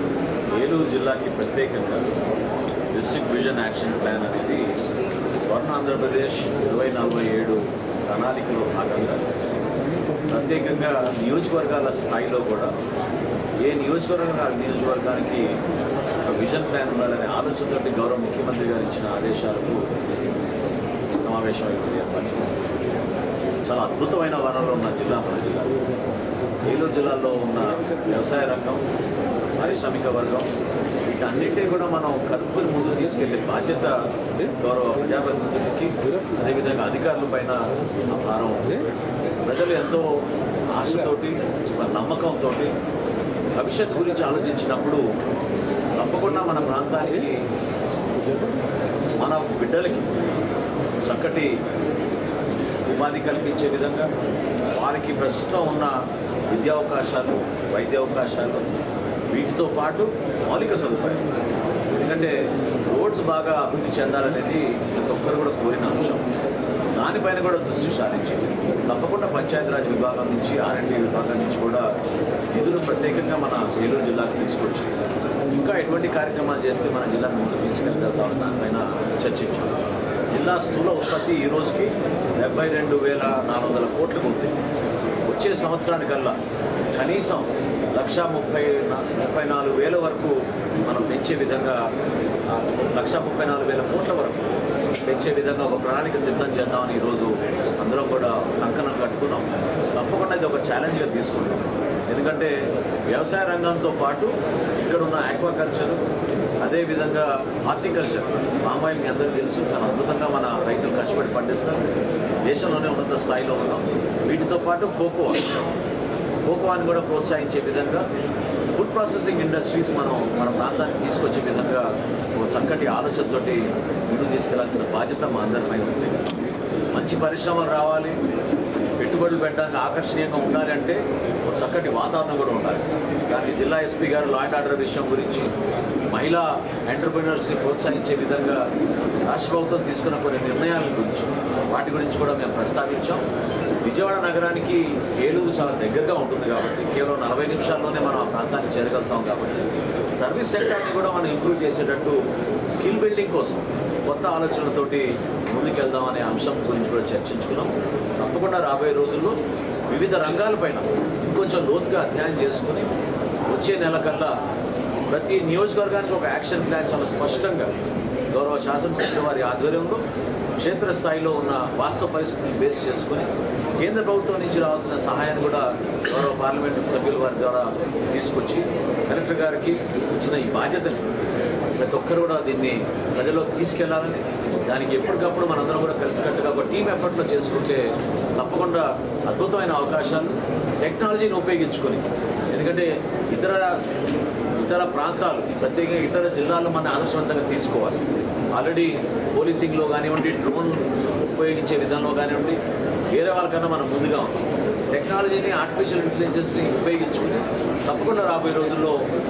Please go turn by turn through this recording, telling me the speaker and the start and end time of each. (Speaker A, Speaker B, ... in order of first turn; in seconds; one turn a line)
Speaker A: 0.5-2.2
Speaker A: 2.9-4.7
Speaker A: 5.3-9.4
Speaker A: 10.3-12.7
Speaker A: 13.6-15.5
Speaker A: 16.2-19.8
Speaker A: 21.1-22.8
Speaker A: 23.6-25.8
Speaker A: 26.6-28.9
Speaker A: 29.6-30.5
Speaker A: 31.1-38.8
Speaker A: 39.4-40.2
Speaker A: 40.7-42.7
Speaker A: 43.5-45.0
Speaker A: 46.0-47.4
Speaker A: 49.2-50.2
Speaker A: 51.0-51.5
Speaker A: 52.9-54.1
Speaker A: 54.7-56.0
Speaker A: 56.5-58.6
Speaker A: 59.3-61.3
Speaker A: 61.9-66.3
Speaker A: 67.0-71.9
Speaker A: 72.5-79.8
Speaker A: 80.3-84.5
Speaker A: 85.2-86.3
Speaker A: 86.9-91.8
Speaker A: 92.5-94.5
Speaker A: 95.0-102.5
Speaker A: 103.1-106.0
Speaker A: 106.6-111.9
Speaker A: 112.5-115.6
Speaker A: 116.5-118.0
Speaker A: 118.7-126.3
Speaker A: 126.9-128.2
Speaker A: 129.0-135.5
Speaker A: 136.1-138.6
Speaker A: 139.2-143.2
Speaker A: 143.8-159.4
Speaker A: 159.9-162.9
Speaker A: 163.5-164.4
Speaker A: 165.1-167.7
Speaker A: 168.3-170.0
Speaker A: 170.6-173.3
Speaker A: 173.8-181.1
Speaker A: 181.8-193.8
Speaker A: 194.5-202.6
Speaker A: 203.1-209.0